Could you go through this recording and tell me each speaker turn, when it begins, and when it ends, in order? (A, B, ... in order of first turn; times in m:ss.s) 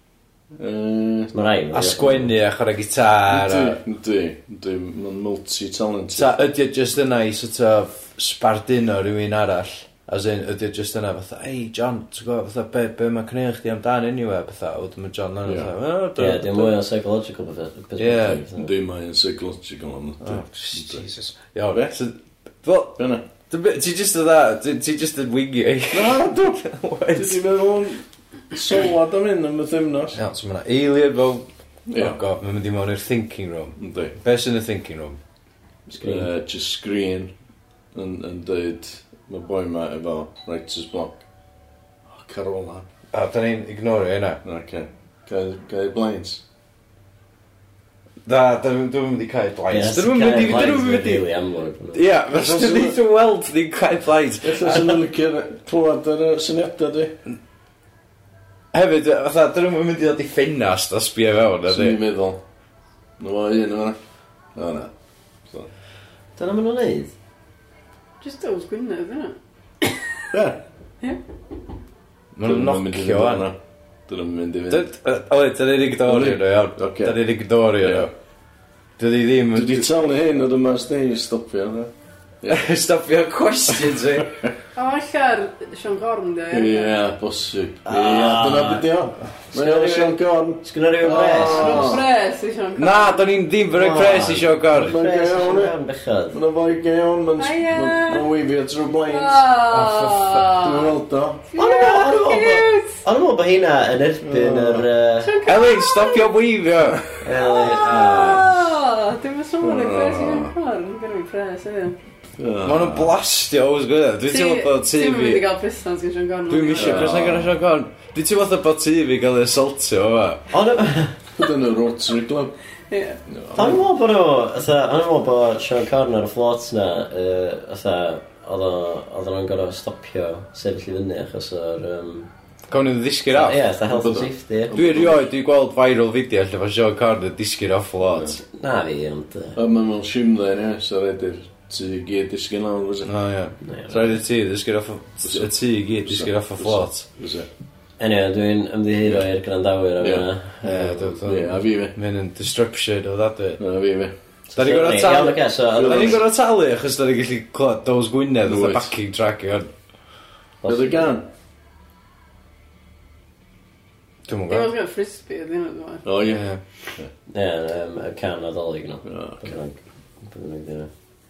0:00.6-0:01.3 A
0:01.3-0:02.3 B
0:01.7-0:03.8 C
0:03.3-0:06.3 A
0:06.1-0:16.8 C
0:15.4-0:15.7 A
0:16.2-0:18.7 B
0:18.0-0:18.4 C
0:18.5-0:21.1 A
0:20.2-0:27.4 C
0:21.7-0:22.0 A
0:23.0-0:23.2 A
0:25.9-0:30.2 A
0:30.1-0:35.2 C
0:31.9-0:32.2 A
0:33.8-0:34.1 A
0:35.9-0:37.3 A
0:36.0-0:36.2 B
0:37.9-0:41.2 A
0:42.1-0:42.8 A
0:43.1-0:44.4 C
0:44.4-0:46.4 A
0:48.2-0:51.2 C
0:49.7-0:52.0 B
0:51.9-0:55.0 C
0:52.3-0:53.0 A
0:54.4-0:57.2 A
0:58.7-1:02.0 C
1:01.7-1:02.4 A
1:03.2-1:04.0 A
1:04.5-1:04.9 A
1:06.4-1:07.1 B
1:08.2-1:10.0 D
1:10.3-1:10.6 A
1:12.3-1:13.5 C
1:12.4-1:14.9 A
1:14.7-1:18.1 C
1:16.0-1:17.2 A
1:17.8-1:18.1 A
1:19.0-1:19.9 C
1:19.5-1:22.6 A
1:22.5-1:24.4 C
1:23.7-1:24.5 A
1:24.8-1:27.0 D
1:26.5-1:32.0 A
1:27.9-1:28.9 B
1:29.5-1:32.0 B
1:31.4-1:33.2 D
1:32.8-1:35.0 C
1:33.7-1:36.4 B
1:34.7-1:35.7 A
1:36.3-1:39.4 A
1:37.4-1:38.2 D
1:39.1-1:40.9 D
1:39.7-1:40.6 C
1:40.5-1:41.5 A
1:41.5-1:43.0 D
1:41.6-1:45.4 B
1:44.2-1:44.9 A
1:45.2-1:46.3 D
1:45.4-1:47.1 C
1:47.2-1:48.5 B
1:47.4-1:51.9 D
1:47.8-1:48.4 A
1:49.6-1:50.5 A
1:52.4-1:53.1 A
1:52.6-1:55.5 C
1:54.3-1:57.2 D
1:56.5-2:00.5 C
1:56.8-1:57.6 A
2:00.5-2:01.2 B
2:01.3-2:02.5 A
2:02.9-2:03.2 D
2:03.3-2:03.8 A
2:03.5-2:12.3 B
2:12.7-2:13.7 C
2:13.3-2:14.8 B
2:13.9-2:15.3 A
2:14.7-2:18.4 C
2:18.1-2:18.4 A
2:18.4-2:19.6 B
2:19.5-2:23.1 A
2:23.0-2:27.0 C
2:23.6-2:24.2 B
2:25.2-2:25.5 A
2:26.0-2:27.5 A
2:28.0-2:31.2 B
2:30.0-2:30.3 A
2:30.6-2:33.6 C
2:31.2-2:32.0 A
2:33.6-2:34.1 A
2:34.5-2:36.2 B
2:34.6-2:39.7 C
2:35.7-2:36.2 A
2:38.4-2:38.9 A
2:40.6-2:41.0 B
2:40.6-2:41.3 A
2:44.3-2:44.7 C
2:44.5-2:46.0 D
2:46.0-2:46.4 A
2:46.2-2:46.6 C
2:47.3-2:50.9 B
2:49.0-2:49.5 A